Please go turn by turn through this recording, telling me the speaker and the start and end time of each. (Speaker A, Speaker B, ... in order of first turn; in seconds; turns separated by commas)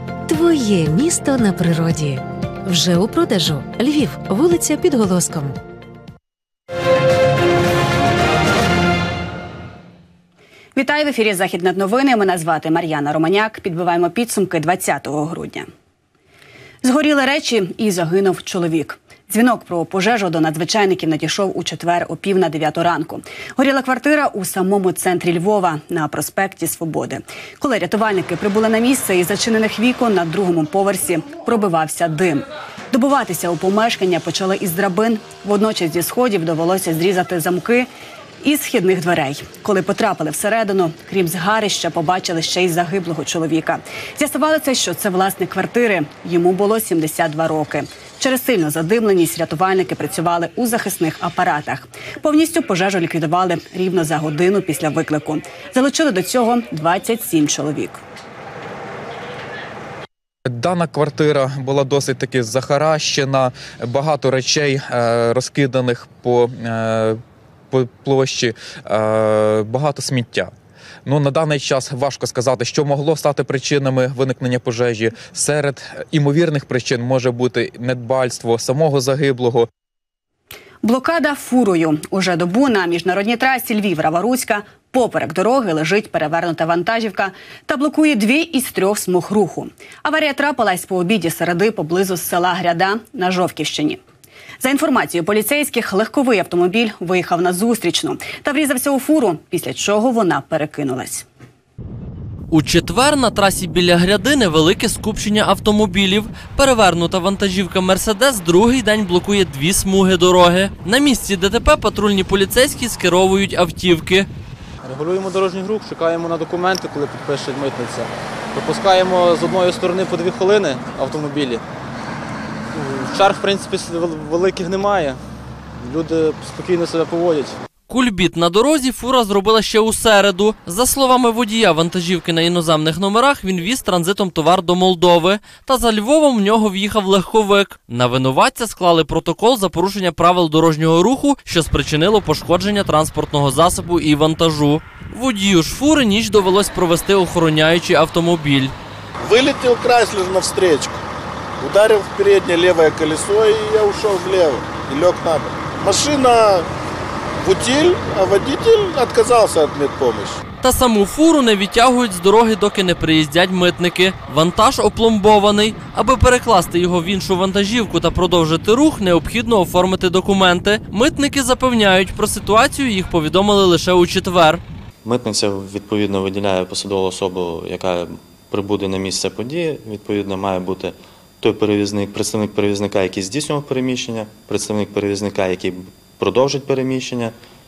Speaker A: 0.3-5.6, Speaker B: 10.8-15.7, Speaker B: 16.8-37.9, Speaker B: 38.4-58.0, Speaker C: 60.5-67.2, Speaker C: 67.7-70.5, Speaker C: 71.0-79.7, Speaker B: 80.8-94.0, Speaker B: 94.6-101.2, Speaker D: 102.5-114.3, Speaker E: 114.9-121.6, Speaker E: 122.8-125.2, Speaker E: 125.8-127.5, Speaker D: 127.9-148.7, Speaker F: 149.2-151.0, Speaker F: 151.6-156.7, Speaker F: 157.4-160.4, Speaker D: 160.6-174.6, Speaker G: 175.0-187.3